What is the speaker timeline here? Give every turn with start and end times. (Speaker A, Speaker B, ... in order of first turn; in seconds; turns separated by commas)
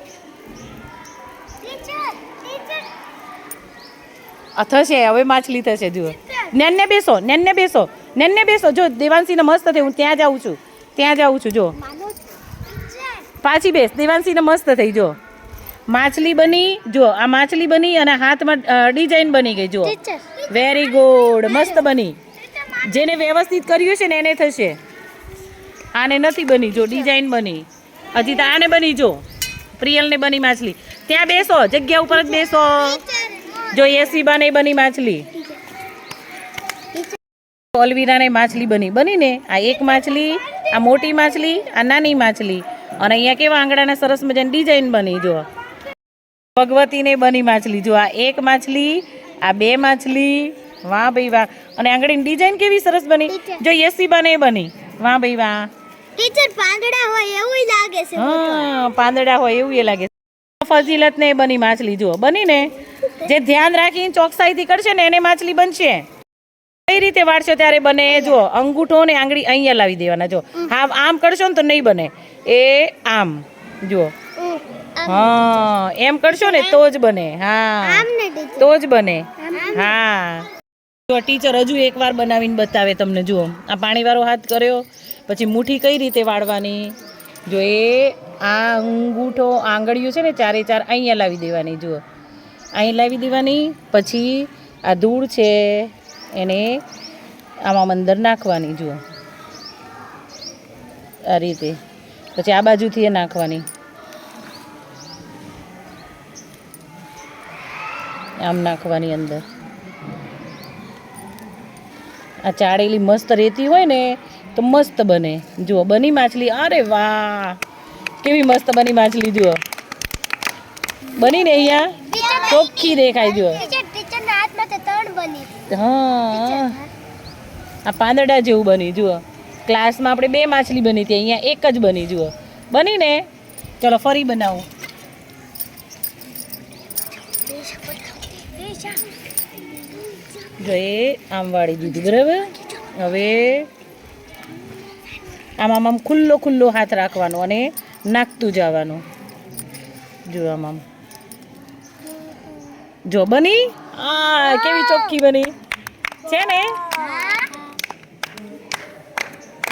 Speaker A: 1.6-2.9, Speaker B: 4.6-11.8, Speaker A: 11.8-13.3, Speaker B: 13.4-15.2, Speaker B: 15.9-24.8, Speaker A: 19.9-20.4, Speaker B: 25.9-29.2, Speaker B: 29.7-33.1, Speaker A: 32.6-33.7, Speaker B: 33.7-35.4, Speaker B: 37.7-45.5, Speaker B: 46.5-55.7, Speaker A: 56.2-58.7, Speaker B: 58.1-66.1, Speaker B: 66.9-74.1, Speaker A: 74.4-75.3, Speaker B: 75.0-80.5, Speaker A: 76.5-76.8, Speaker A: 77.8-78.7, Speaker A: 79.4-79.9, Speaker B: 81.1-87.0, Speaker B: 87.5-92.0, Speaker B: 92.7-96.8, Speaker B: 97.6-99.0, Speaker B: 101.3-101.8, Speaker B: 102.3-103.7, Speaker B: 108.4-109.4, Speaker B: 112.4-117.6, Speaker B: 118.2-119.6, Speaker B: 121.1-123.6, Speaker A: 121.2-125.6, Speaker B: 125.7-126.8, Speaker A: 126.3-126.9, Speaker B: 127.8-133.3, Speaker B: 133.8-134.7, Speaker A: 137.4-139.1, Speaker A: 139.8-140.5, Speaker B: 140.6-143.7, Speaker B: 145.6-149.0, Speaker B: 150.3-150.8, Speaker B: 153.1-155.5, Speaker B: 156.2-157.0, Speaker A: 157.0-157.4